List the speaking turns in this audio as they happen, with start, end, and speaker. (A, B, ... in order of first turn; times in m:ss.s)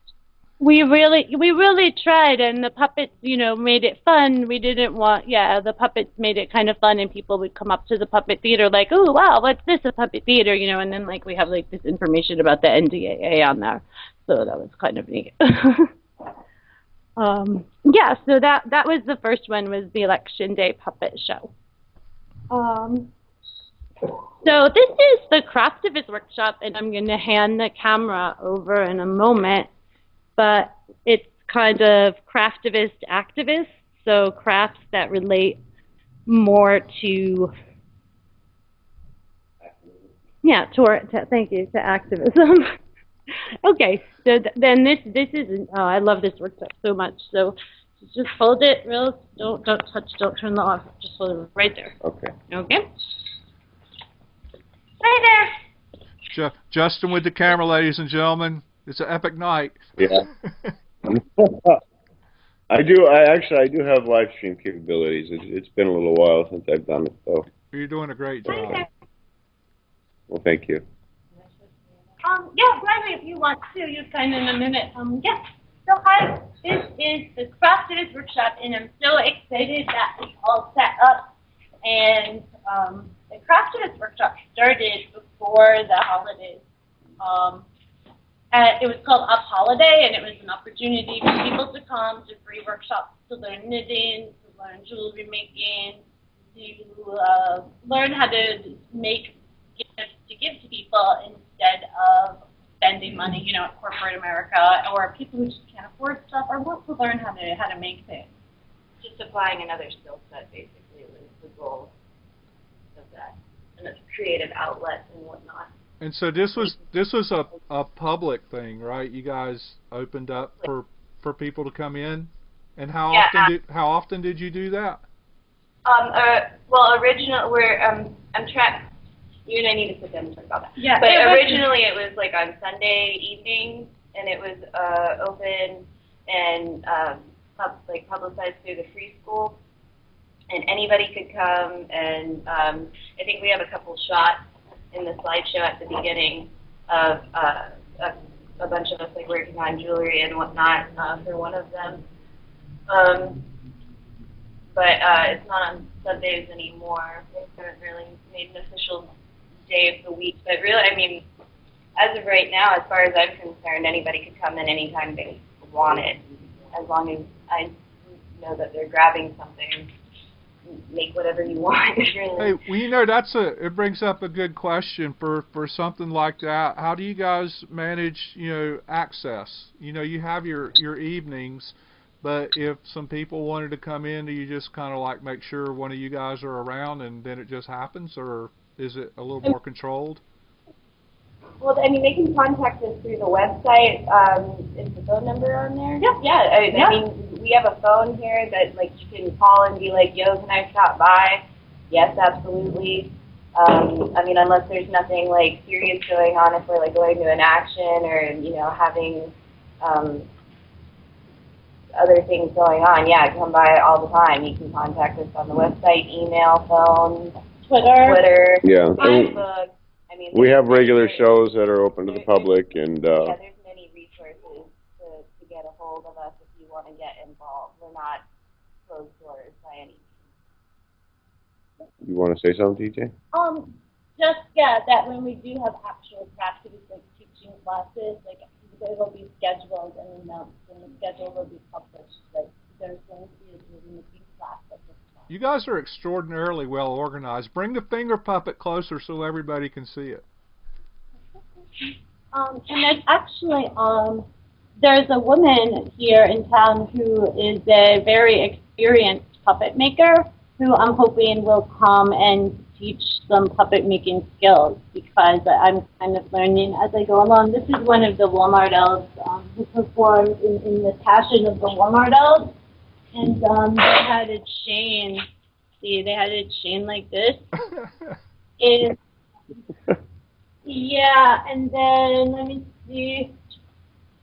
0:00.6-0:15.9 A
0:17.2-0:21.5 A
0:22.5-0:23.1 A
0:24.4-0:29.7 A
0:30.4-0:35.6 A
0:36.3-0:37.5 A
0:40.4-0:42.8 A
0:43.6-0:52.0 A
0:52.0-0:52.3 B
0:52.5-0:52.8 A
0:55.0-0:55.6 A
0:56.3-1:00.7 C
1:00.0-1:00.3 B
1:01.1-1:01.8 B
1:02.7-1:07.5 B
1:07.7-1:08.9 C
1:08.5-1:08.9 A
1:10.3-1:10.8 B
1:12.2-1:21.3 A
1:21.8-1:26.6 A
1:27.2-1:27.6 A
1:28.5-1:36.0 A
1:36.5-1:48.3 A
1:49.0-1:51.9 D
1:53.0-1:55.7 D
1:56.0-2:05.0 C
2:03.1-2:03.5 D
2:05.8-2:08.9 D
2:09.5-2:19.6 D
2:10.8-2:11.7 A
2:20.5-2:24.4 D
2:24.9-2:32.0 D
2:32.9-2:33.5 D
2:34.8-2:39.1 D
2:39.7-2:41.2 D
2:42.0-2:47.8 D
2:48.4-2:49.9 D
2:50.7-2:52.6 D
2:52.4-3:10.2 C
3:11.6-3:30.3 D
3:16.7-3:17.0 A
3:32.0-3:37.4 D
3:37.7-3:38.2 A
3:38.0-3:42.6 D
3:38.6-3:39.4 B
3:39.0-3:39.4 A
3:40.3-3:43.4 B
3:43.1-3:48.2 D
3:48.9-3:50.1 D
3:52.0-3:53.1 B
3:53.3-4:05.0 A
4:05.3-4:10.2 C
4:12.3-4:14.2 A
4:14.8-4:32.6 A
4:33.1-4:35.2 A
4:35.8-4:37.5 A
4:38.6-4:39.0 A
4:40.6-4:43.4 A